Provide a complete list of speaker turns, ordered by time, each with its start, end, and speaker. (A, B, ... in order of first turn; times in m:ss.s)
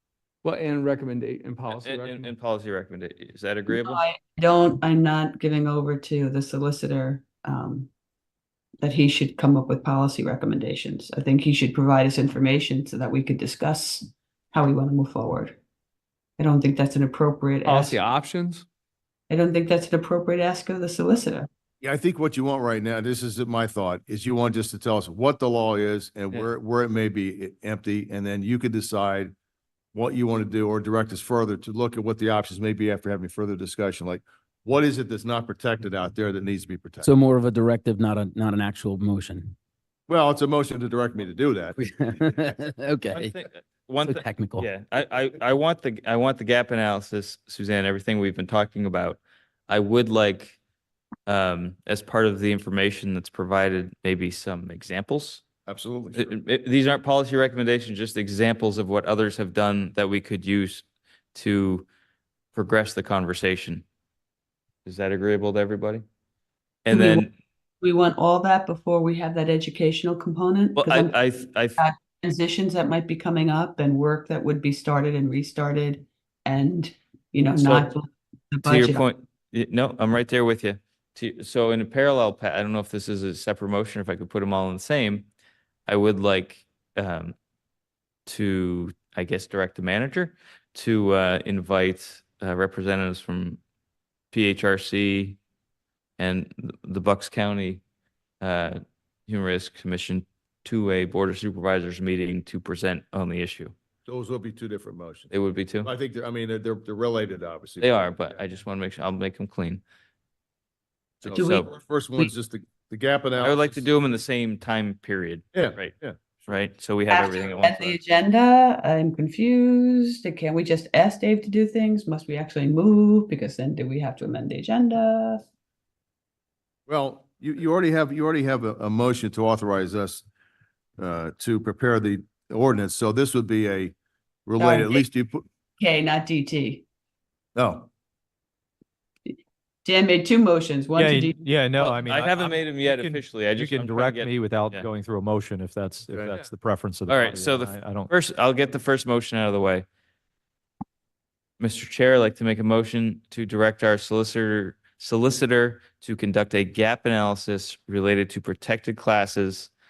0:00.4-0:02.3 A
0:01.7-0:04.0 B
0:03.7-0:07.9 C
0:08.8-0:15.6 C
0:16.4-0:18.0 C
0:17.6-0:18.6 A
0:19.3-0:21.5 C
0:21.8-0:29.3 D
0:29.9-0:37.1 D
0:37.0-0:39.5 E
0:40.1-0:42.5 D
0:41.7-0:43.4 E
0:43.1-0:50.6 B
0:44.0-0:44.7 E
0:51.3-0:55.4 B
0:55.6-0:56.3 D
0:56.1-1:01.8 B
1:02.5-1:03.8 B
1:04.8-1:06.0 B
1:06.8-1:07.3 B
1:06.9-1:07.3 C
1:07.8-1:11.1 C
1:10.8-1:11.8 B
1:11.8-1:19.0 C
1:17.6-1:17.9 B
1:18.6-1:25.3 B
1:25.9-1:27.3 B
1:28.2-1:33.6 B
1:34.3-1:35.4 B
1:36.2-1:37.8 B
1:38.4-1:43.7 B
1:44.0-1:45.3 D
1:45.3-1:45.9 B
1:45.8-1:48.4 D
1:47.8-1:49.8 B
1:51.2-1:53.9 D
1:51.2-1:51.7 B
1:51.3-1:52.3 C
1:53.4-1:56.0 B
1:55.5-1:56.5 D
1:56.5-1:58.0 B
1:57.1-2:05.4 C
2:06.9-2:10.2 D
2:11.0-2:13.9 D
2:14.4-2:15.4 D
2:14.6-2:15.0 C
2:15.8-2:16.8 C
2:17.5-2:17.9 D
2:19.3-2:21.4 C
2:21.0-2:28.1 F
2:21.8-2:24.9 B
2:27.1-2:29.8 B
2:31.6-2:39.7 B